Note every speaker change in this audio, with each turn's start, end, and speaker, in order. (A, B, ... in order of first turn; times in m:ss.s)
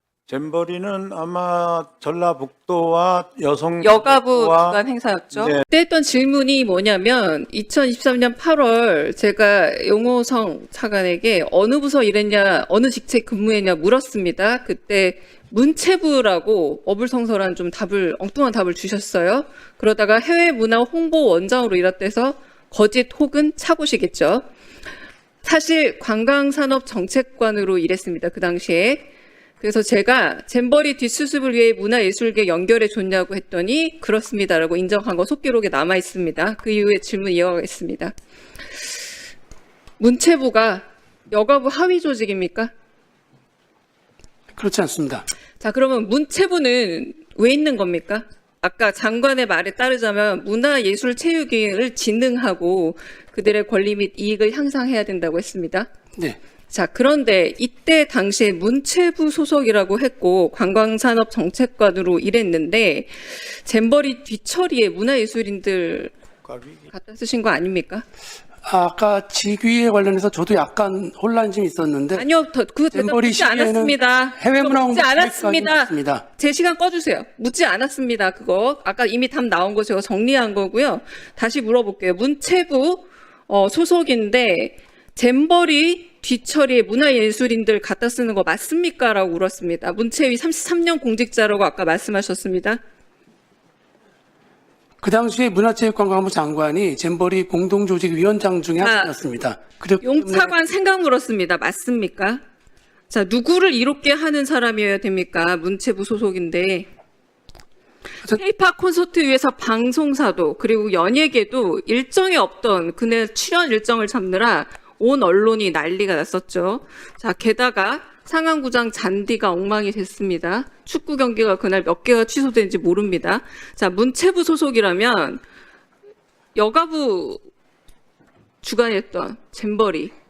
0:00.3-0:04.8 A
0:03.8-0:24.4 B
0:05.4-0:05.6 A
0:25.4-0:29.0 B
0:29.6-0:38.1 B
0:40.0-0:42.7 B
0:44.6-0:45.2 C
0:45.6-0:55.9 B
0:56.7-1:06.1 B
1:06.4-1:06.9 A
1:06.9-1:08.0 B
1:08.6-1:12.2 C
1:12.2-1:32.8 B
1:12.9-1:16.2 C
1:35.0-1:40.5 C
1:38.8-1:39.1 B
1:40.0-1:42.4 B
1:43.1-1:46.9 B
1:48.3-2:05.4 B
2:06.5-2:07.4 B
2:08.6-2:10.1 B